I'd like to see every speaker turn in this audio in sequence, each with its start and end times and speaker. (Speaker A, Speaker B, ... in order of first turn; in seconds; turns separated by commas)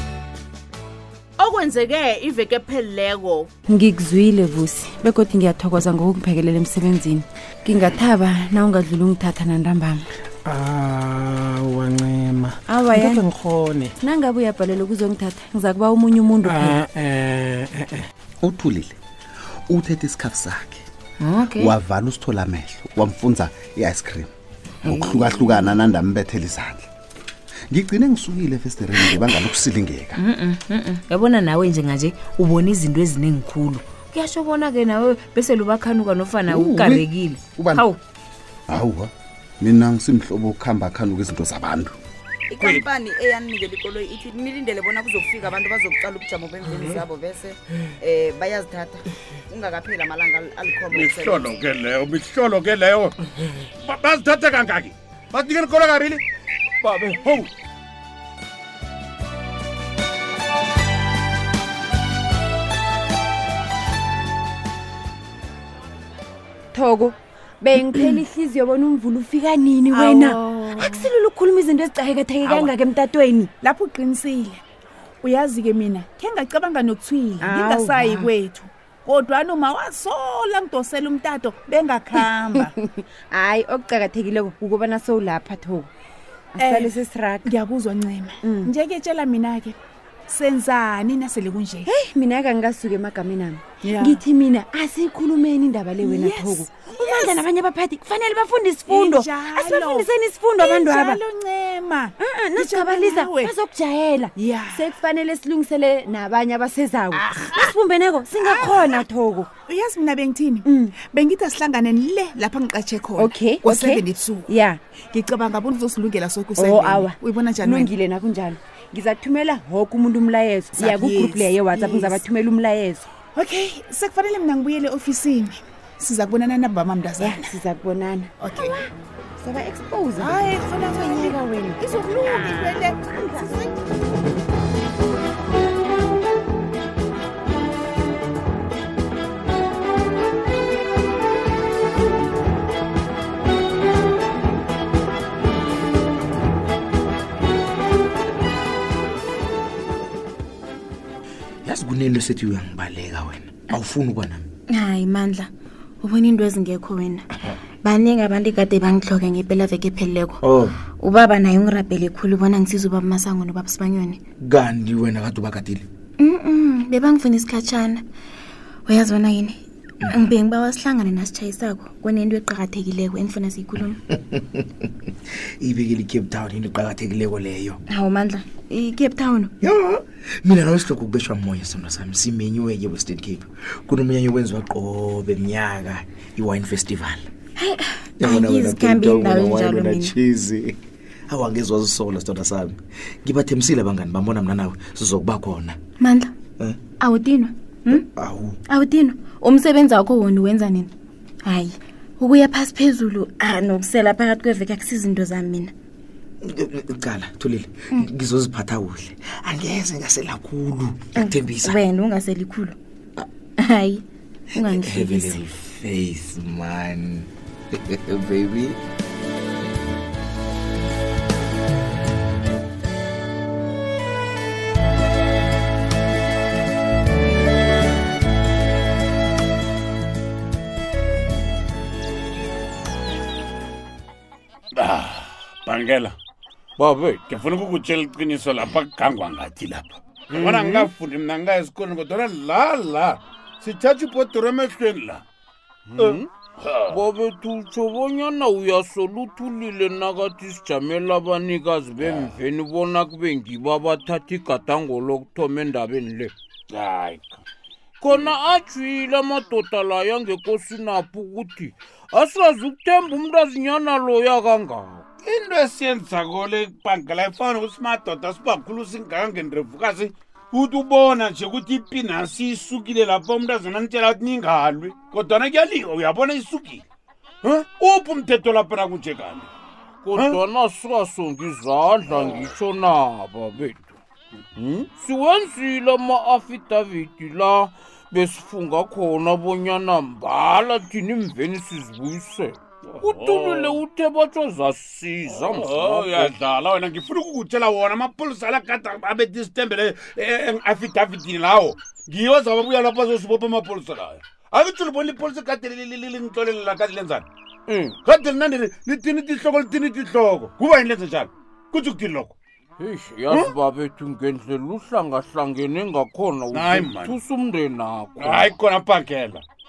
Speaker A: 1.4-3.5, Speaker B: 3.7-10.0, Speaker C: 10.6-12.5, Speaker B: 12.7-13.3, Speaker C: 13.1-13.9, Speaker B: 14.0-16.9, Speaker C: 16.7-17.6, Speaker D: 18.4-18.9, Speaker D: 19.7-20.9, Speaker A: 21.2-21.7, Speaker D: 21.5-24.3, Speaker D: 24.8-26.9, Speaker A: 25.1-25.6, Speaker D: 27.7-30.2, Speaker A: 30.2-38.0, Speaker D: 36.5-37.9, Speaker D: 38.7-42.0, Speaker E: 42.6-42.9, Speaker F: 46.9-47.3, Speaker F: 48.0-48.9, Speaker F: 49.6-50.6, Speaker E: 50.9-53.2, Speaker E: 53.8-56.2, Speaker E: 56.8-57.5, Speaker B: 66.7-73.5, Speaker G: 69.9-70.3, Speaker G: 73.6-74.6, Speaker G: 75.2-82.7, Speaker B: 77.4-78.3, Speaker B: 82.5-85.9, Speaker B: 86.6-87.5, Speaker G: 86.6-86.9, Speaker G: 87.5-89.8, Speaker B: 88.4-88.7, Speaker G: 90.3-91.9, Speaker B: 91.9-101.2, Speaker G: 93.8-94.2, Speaker G: 96.0-97.4, Speaker G: 98.9-103.5, Speaker B: 102.2-109.5, Speaker G: 104.4-104.9, Speaker G: 107.1-107.7, Speaker G: 108.4-109.0, Speaker G: 109.6-114.5, Speaker B: 110.7-111.0, Speaker B: 113.2-114.8, Speaker G: 115.1-117.9, Speaker B: 116.6-123.1, Speaker G: 120.7-122.2, Speaker G: 123.3-127.5, Speaker B: 127.2-128.8, Speaker G: 128.4-128.8, Speaker B: 129.4-131.9, Speaker G: 130.2-133.5, Speaker B: 133.1-133.7, Speaker H: 151.7-154.4, Speaker I: 154.7-157.3, Speaker I: 157.8-160.4, Speaker H: 160.4-160.8, Speaker I: 161.0-164.2, Speaker H: 164.4-165.9, Speaker I: 166.2-168.1, Speaker I: 168.9-174.0, Speaker H: 175.6-177.8, Speaker I: 177.9-179.5, Speaker H: 179.6-187.3, Speaker I: 187.6-190.2, Speaker H: 188.3-190.8, Speaker H: 191.3-195.8, Speaker I: 196.0-196.3, Speaker I: 197.0-198.1, Speaker H: 198.2-198.6, Speaker I: 198.7-200.9, Speaker I: 201.4-205.7, Speaker H: 206.4-211.8, Speaker I: 211.2-212.8, Speaker I: 213.6-215.5, Speaker H: 214.6-217.3, Speaker H: 217.9-218.8, Speaker E: 234.8-236.2, Speaker J: 236.8-237.3, Speaker E: 237.3-245.2, Speaker J: 240.3-240.9, Speaker J: 245.9-246.3, Speaker E: 246.0-247.0, Speaker J: 246.9-256.3, Speaker E: 252.0-252.4, Speaker E: 256.7-257.4, Speaker J: 258.0-265.1, Speaker E: 265.2-276.9, Speaker E: 277.4-279.5, Speaker J: 280.0-283.9, Speaker E: 280.1-280.4, Speaker J: 284.6-296.3, Speaker E: 292.9-293.8, Speaker E: 295.3-307.3, Speaker J: 307.7-308.0, Speaker E: 308.0-312.4, Speaker J: 312.8-318.6, Speaker E: 316.5-317.2, Speaker E: 318.2-319.4